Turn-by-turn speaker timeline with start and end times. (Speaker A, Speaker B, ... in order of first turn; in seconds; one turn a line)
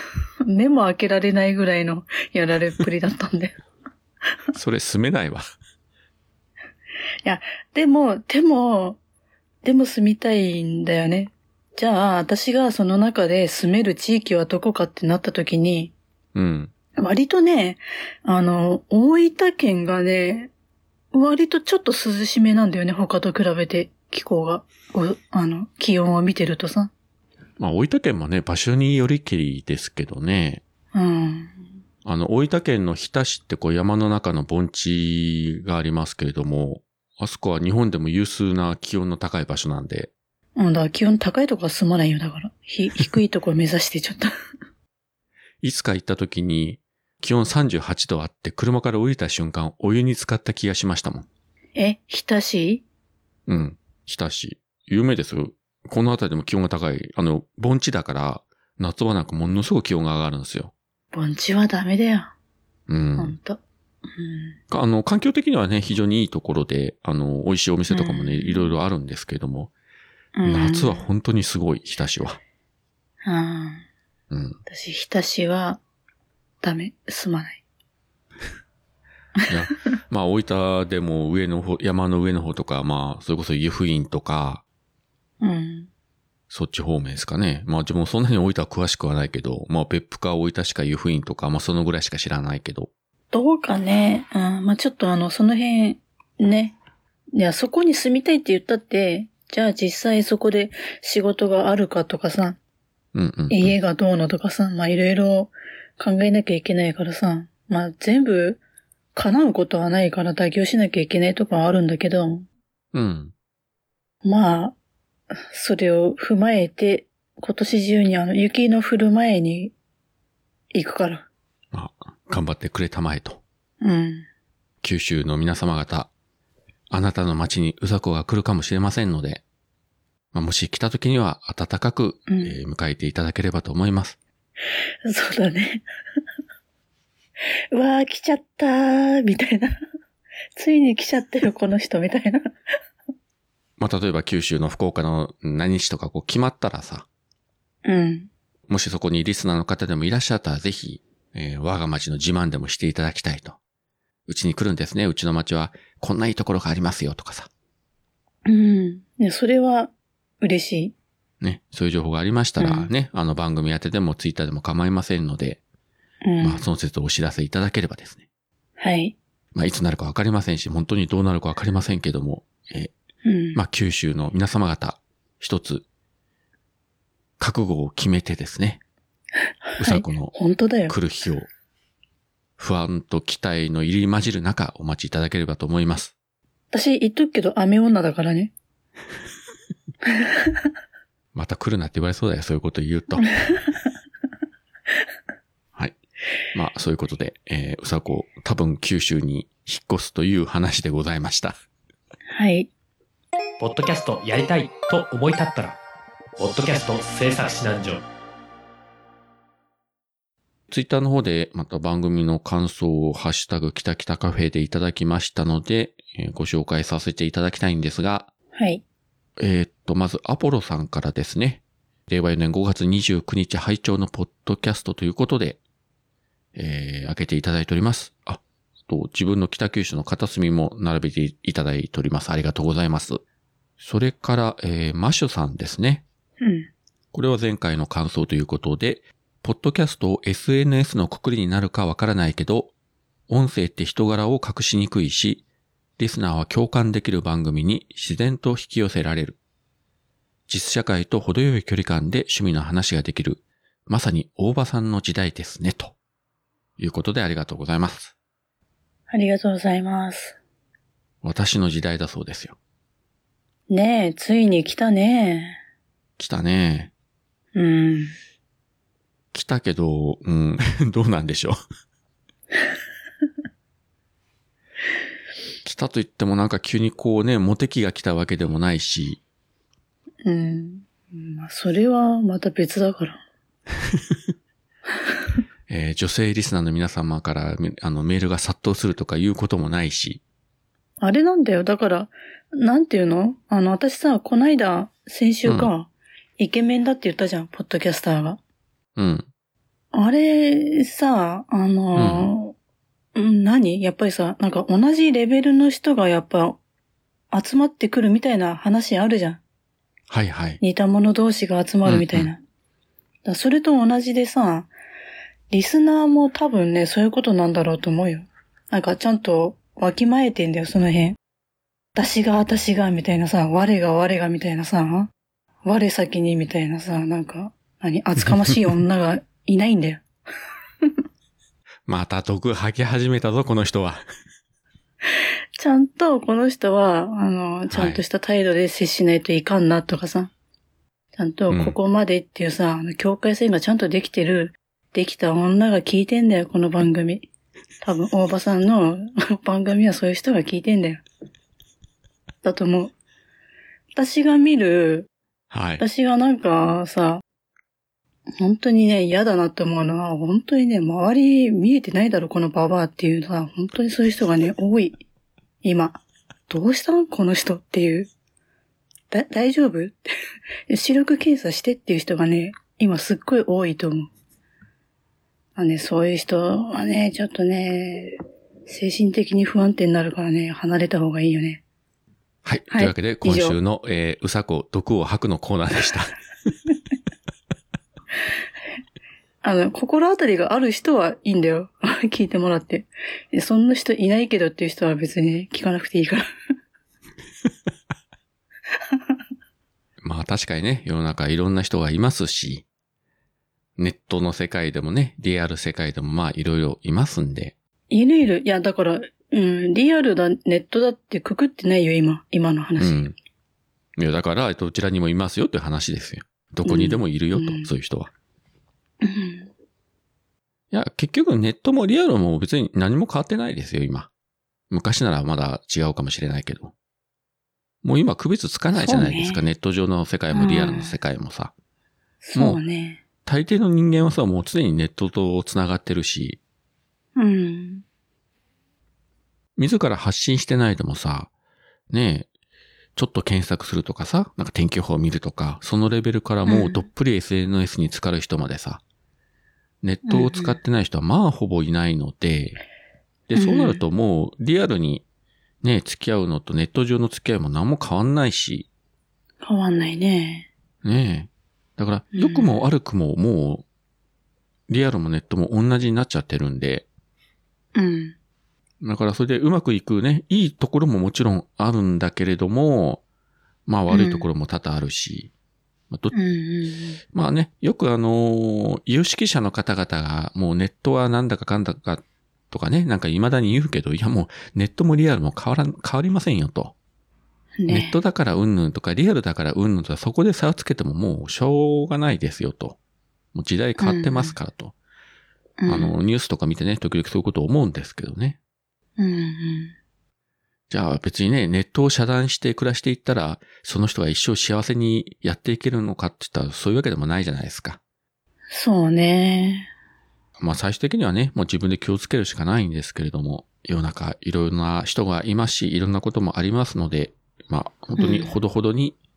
Speaker A: 0.5-3.6
Speaker B: 4.5-5.4
Speaker A: 7.2-9.0
Speaker A: 9.6-15.9
Speaker B: 16.4-16.7
Speaker A: 17.0-20.5
Speaker A: 21.1-26.9
Speaker B: 27.6-30.6
Speaker A: 30.9-31.6
Speaker B: 32.0-40.1
Speaker A: 40.6-44.3
Speaker B: 45.6-51.3
Speaker A: 51.8-52.8
Speaker B: 53.5-60.7
Speaker A: 61.1-62.3
Speaker B: 62.9-63.4
Speaker A: 63.2-63.6
Speaker A: 64.1-64.6
Speaker B: 64.7-69.7
Speaker A: 67.9-68.7
Speaker A: 70.3-71.1
Speaker B: 70.5-72.4
Speaker A: 73.2-73.8
Speaker B: 74.3-74.6
Speaker A: 74.7-75.8
Speaker A: 76.6-77.6
Speaker B: 79.5-84.6
Speaker A: 85.4-85.9
Speaker B: 86.5-92.9
Speaker A: 93.3-96.8
Speaker A: 97.3-102.6
Speaker B: 103.1-103.8
Speaker A: 103.5-108.6
Speaker A: 109.1-112.5
Speaker B: 112.9-113.3
Speaker A: 114.2-114.8
Speaker A: 115.5-119.7
Speaker A: 120.7-121.3
Speaker B: 121.7-123.4
Speaker A: 123.8-124.3
Speaker B: 124.8-126.1
Speaker B: 126.9-129.4
Speaker B: 130.3-134.2
Speaker A: 132.3-132.6
Speaker A: 135.1-135.8
Speaker A: 137.7-139.8
Speaker A: 140.6-142.4
Speaker B: 143.8-147.1
Speaker A: 147.8-148.3
Speaker B: 148.7-153.6
Speaker B: 154.3-157.5
Speaker A: 158.5-160.9
Speaker B: 161.4-165.6
Speaker A: 162.6-162.9
Speaker A: 166.2-166.6
Speaker B: 166.4-168.2
Speaker A: 168.8-169.2
Speaker B: 169.5-172.9
Speaker A: 173.2-173.6
Speaker B: 173.5-175.8
Speaker B: 177.4-178.8
Speaker A: 179.7-181.0
Speaker B: 179.8-180.3
Speaker B: 180.9-181.5
Speaker B: 182.6-186.1
Speaker A: 186.7-188.5
Speaker B: 191.3-193.3
Speaker B: 196.5-201.6
Speaker A: 202.3-202.7
Speaker C: 203.6-205.8
Speaker C: 206.4-208.1
Speaker B: 210.7-218.3
Speaker A: 218.6-218.8
Speaker B: 219.4-225.6
Speaker B: 226.6-233.2
Speaker B: 233.8-236.0
Speaker A: 236.4-236.7
Speaker B: 237.1-242.7
Speaker B: 243.3-245.4
Speaker B: 246.0-249.4
Speaker B: 250.5-255.9
Speaker B: 256.8-258.1
Speaker A: 259.1-260.4
Speaker B: 261.2-262.6
Speaker A: 263.7-265.6
Speaker B: 266.2-266.9
Speaker A: 267.6-268.1
Speaker B: 269.3-271.6
Speaker B: 275.6-279.2
Speaker A: 280.2-283.2
Speaker B: 285.7-290.2
Speaker A: 291.0-298.4
Speaker B: 299.0-299.3
Speaker A: 299.9-302.6
Speaker B: 301.9-302.3
Speaker A: 303.1-306.6
Speaker A: 307.3-309.4
Speaker B: 310.1-310.6
Speaker A: 310.6-312.4
Speaker B: 311.9-312.3
Speaker A: 313.2-314.7
Speaker A: 315.5-321.2
Speaker A: 321.9-325.1
Speaker A: 325.6-330.0
Speaker B: 331.9-334.0
Speaker A: 335.6-340.3
Speaker B: 337.7-338.0
Speaker A: 341.2-347.3
Speaker B: 341.5-341.8
Speaker A: 347.8-351.0
Speaker A: 352.4-352.9
Speaker A: 353.9-355.1
Speaker B: 355.5-355.8
Speaker A: 355.8-357.2
Speaker A: 358.4-365.0
Speaker A: 365.6-368.1
Speaker A: 369.1-370.1
Speaker A: 370.7-374.1
Speaker A: 375.6-381.6
Speaker B: 382.4-386.1
Speaker A: 382.7-383.6
Speaker A: 389.4-396.3
Speaker B: 400.0-402.6
Speaker B: 403.8-407.6
Speaker A: 407.9-413.1
Speaker B: 412.8-413.1
Speaker B: 414.0-418.1
Speaker A: 416.7-417.7
Speaker A: 419.0-419.5
Speaker B: 420.7-424.1
Speaker B: 424.7-426.7
Speaker B: 427.8-431.5
Speaker A: 428.7-429.4
Speaker A: 430.3-431.0
Speaker A: 432.2-433.0
Speaker B: 432.4-432.6
Speaker B: 433.2-436.4
Speaker A: 437.2-437.8
Speaker B: 439.6-441.3
Speaker B: 441.9-442.3
Speaker B: 443.0-448.8
Speaker A: 446.5-446.8
Speaker B: 449.8-452.6
Speaker A: 450.1-450.6
Speaker B: 453.3-455.0
Speaker A: 453.4-453.8
Speaker B: 455.6-458.7
Speaker A: 459.4-460.5
Speaker B: 460.8-463.6
Speaker A: 462.1-462.6
Speaker B: 464.7-466.9
Speaker A: 467.8-468.2
Speaker B: 468.8-473.0
Speaker B: 473.7-475.3
Speaker A: 473.9-474.3
Speaker A: 476.1-477.0
Speaker B: 477.1-486.7
Speaker A: 487.6-488.0
Speaker B: 487.7-492.8
Speaker B: 493.3-494.7
Speaker A: 493.8-494.4
Speaker A: 495.6-496.0
Speaker B: 495.7-498.4
Speaker A: 499.0-499.8
Speaker B: 500.7-507.8
Speaker A: 508.5-509.7
Speaker B: 510.4-519.0
Speaker A: 518.0-518.4